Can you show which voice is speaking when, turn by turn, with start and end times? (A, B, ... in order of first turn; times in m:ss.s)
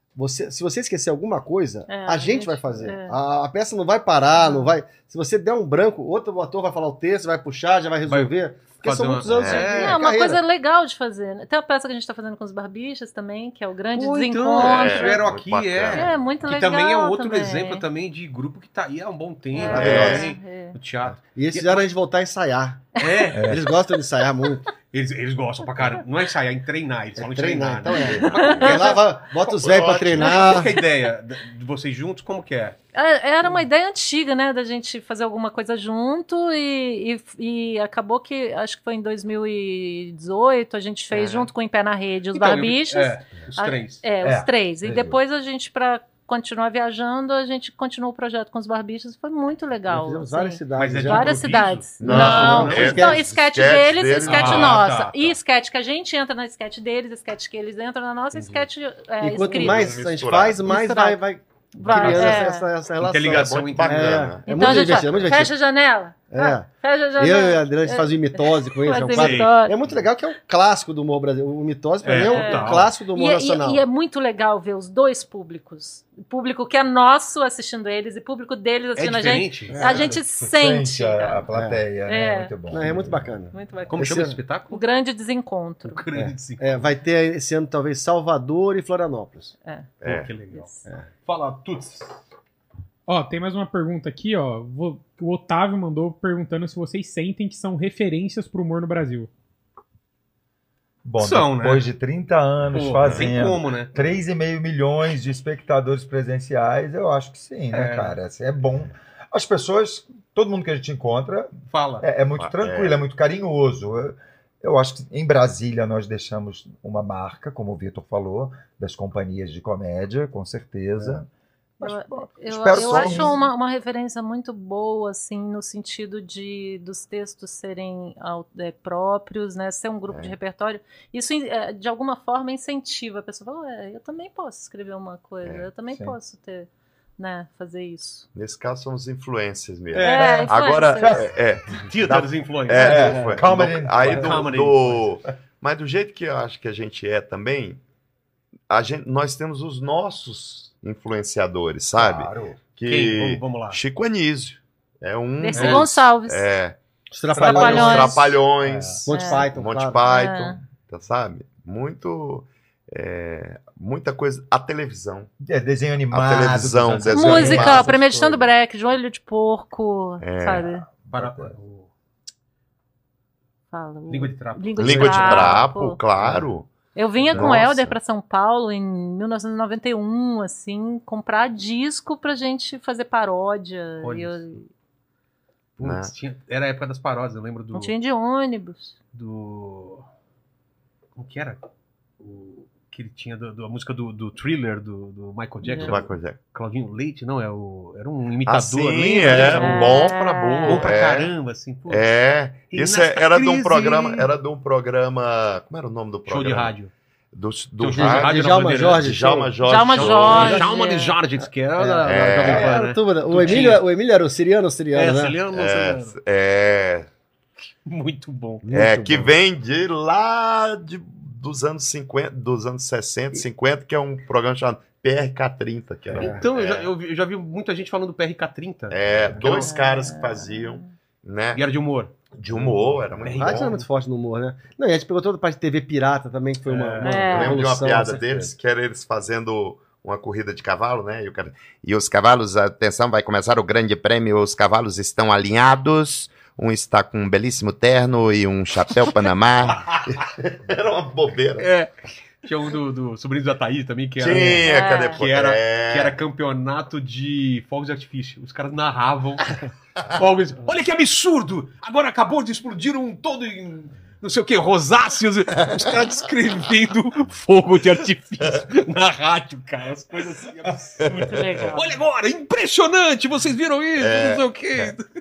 0:00.2-0:10.4 A
0:01.9-0:03.1 B
0:04.4-0:04.7 B
0:08.1-0:10.0 C
0:09.2-0:09.7 D
0:09.5-0:15.3 B
0:13.9-0:21.9 C
0:14.6-0:16.1 D
0:15.9-0:17.8 B
0:19.5-0:20.8 B
0:19.7-0:20.3 A
0:19.7-0:20.3 D
0:21.2-0:24.7 A
0:23.0-0:23.6 C
0:23.3-0:23.6 E
0:24.8-0:32.8 C
0:27.2-0:30.7 A
0:28.0-0:28.7 D
0:28.2-0:28.8 B
0:30.2-0:30.8 B
0:32.9-0:59.9 B
0:41.1-0:41.5 D
0:42.3-0:44.0 C
0:44.2-0:45.2 E
0:49.9-0:51.4 A
0:50.7-0:53.0 C
0:52.0-0:54.8 D
0:52.0-0:53.3 A
0:54.2-0:55.3 C
0:59.2-1:05.5 A
0:59.5-1:00.6 D
1:00.6-1:01.2 B
1:01.7-1:02.7 B
1:02.0-1:02.4 C
1:03.0-1:04.4 C
1:03.2-1:05.4 D
1:04.4-1:09.8 B
1:06.3-1:13.8 A
1:09.1-1:09.6 C
1:12.0-1:12.9 C
1:12.2-1:21.4 B
1:19.0-1:20.1 C
1:19.7-1:20.1 A
1:19.7-1:23.4 E
1:21.5-1:21.8 A
1:22.1-1:22.5 B
1:22.7-1:24.4 A
1:23.5-1:26.0 B
1:23.9-1:24.8 C
1:25.8-1:26.8 C
1:26.1-1:29.5 A
1:30.0-1:30.3 D
1:30.0-1:32.2 C
1:30.5-1:30.8 B
1:33.1-1:39.3 F
1:41.0-2:01.3 E
1:41.2-1:41.9 C
1:42.7-1:43.9 C
1:43.0-1:43.4 D
1:47.7-1:48.2 C
1:51.7-1:52.0 C
1:52.4-1:53.0 D
2:01.8-2:03.5 E
2:01.8-2:18.2 B
2:10.1-2:10.3 D
2:15.4-2:15.7 D
2:18.3-2:27.8 D
2:19.9-2:20.5 C
2:20.0-2:21.2 B
2:21.0-2:21.3 E
2:21.7-2:25.0 C
2:22.7-2:24.4 E
2:28.7-2:36.8 D
2:32.0-2:32.6 E
2:32.8-2:33.8 C
2:35.4-2:36.5 B
2:35.5-2:35.8 C
2:37.1-2:38.1 A
2:37.3-2:39.1 E
2:37.4-2:38.2 B
2:37.4-2:45.3 D
2:39.0-2:40.0 A
2:39.1-2:39.5 B
2:40.0-2:40.6 B
2:45.4-2:48.4 E
2:46.1-2:48.1 D
2:47.1-2:50.8 B
2:47.4-2:47.7 A
2:50.2-2:50.7 D
2:50.9-2:51.5 E
2:51.1-2:51.9 C
2:53.7-2:56.0 B
2:54.1-2:55.6 C
2:54.8-2:56.7 D
2:56.9-3:04.7 B
2:57.3-2:58.0 D
2:57.3-2:57.6 E
3:04.0-3:04.4 C
3:05.8-3:07.9 C
3:05.8-3:06.1 D
3:07.7-3:08.9 B
3:09.1-3:10.0 C
3:11.2-3:11.6 C
3:12.2-3:20.0 C
3:15.6-3:16.0 B
3:15.8-3:16.4 D
3:18.4-3:21.3 D
3:19.3-3:21.0 B
3:20.6-3:22.1 C
3:21.9-3:26.7 D
3:22.7-3:24.3 C
3:26.3-3:26.9 C
3:27.3-3:30.6 D
3:27.8-3:29.1 C
3:27.9-3:29.6 A
3:29.6-3:31.2 B
3:29.9-3:33.8 C
3:30.3-3:30.7 A
3:31.8-3:35.4 A
3:32.0-3:32.8 D
3:33.4-3:33.7 D
3:34.9-3:36.2 C
3:35.5-3:37.1 D
3:37.8-3:38.6 C
3:38.6-3:39.3 A
3:38.7-3:46.9 D
3:46.1-3:49.5 C
3:46.1-3:46.4 A
3:48.9-3:51.6 D
3:49.3-3:49.6 E
3:49.4-3:50.9 B
3:51.5-3:52.1 C
3:52.3-3:53.8 D
3:53.2-3:53.8 C
3:53.3-3:58.5 A
3:56.6-3:57.3 C
3:57.0-3:57.6 B
3:57.2-4:11.7 D
4:09.6-4:10.2 C
4:11.6-4:35.0 C
4:14.2-4:16.2 D
4:14.6-4:15.2 B
4:31.0-4:31.5 D
4:31.2-4:32.0 B
4:34.0-4:34.9 D